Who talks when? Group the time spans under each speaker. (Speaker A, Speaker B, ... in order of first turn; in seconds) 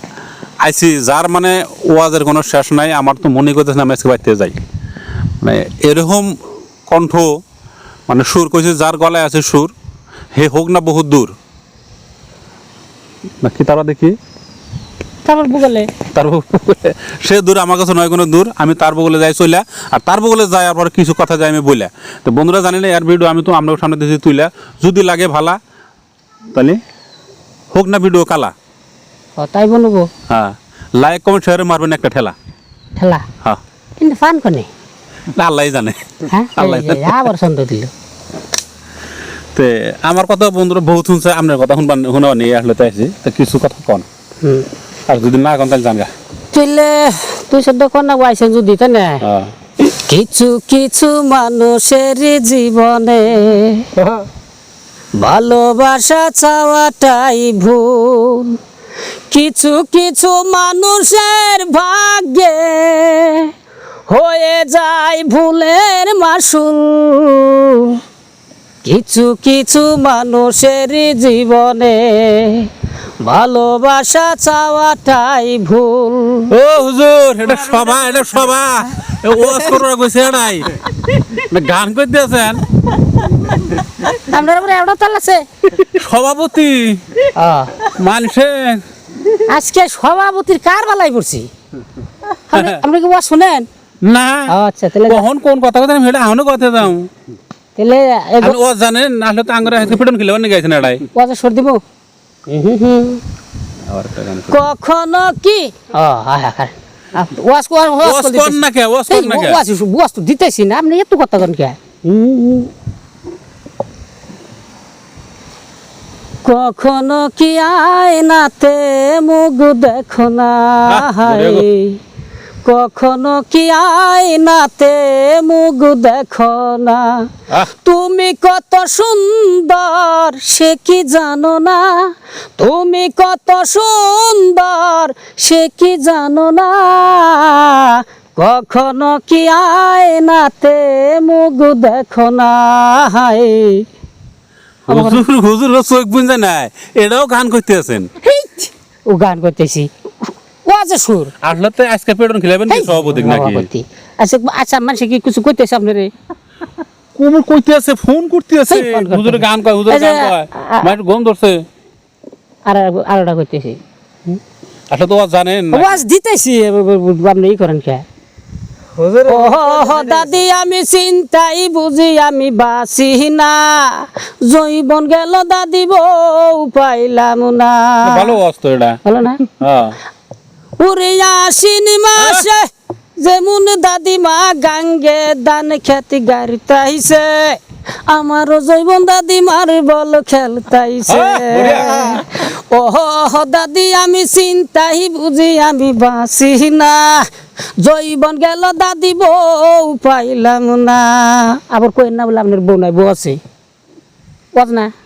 Speaker A: 0.6-4.6, 5.4-6.3, 6.9-7.3, 8.1-9.7, 10.3-11.3, 13.4-14.2, 16.1-25.6, 27.7-28.5, 30.3-32.3, 35.4-37.3, 39.5-44.1, 45.1-46.1, 49.2-49.5, 76.5-80.7, 81.3-82.6, 85.8-87.2, 87.8-88.8, 92.5-92.8, 94.0-94.5, 95.1-97.1, 98.4-101.0, 103.9-104.6, 108.0-109.6, 120.9-121.7, 144.9-148.1, 151.4-153.7, 157.2-161.6, 164.9-166.0, 178.0-179.0, 179.6-180.0, 182.2-182.5, 191.1-192.3
Speaker B: 15.2-15.9, 29.4-30.1, 33.0-33.3, 34.0-34.7, 36.3-37.9, 44.4-44.7, 46.5-49.2, 49.8-53.9, 55.2-58.6, 59.3-63.5, 64.1-68.0, 68.8-72.7, 73.2-76.5, 84.1-85.7, 87.3-87.8, 89.3-91.5, 92.5-93.7, 94.5-95.3, 97.8-98.6, 101.2-101.8, 102.5-103.2, 104.5-112.7, 116.4-122.0, 122.6-143.9, 144.9-145.2, 148.2-151.3, 152.7-156.1, 158.7-161.0, 162.7-164.4, 165.7-168.1, 169.2-178.4, 179.1-179.4, 180.8-203.4, 204.6-204.9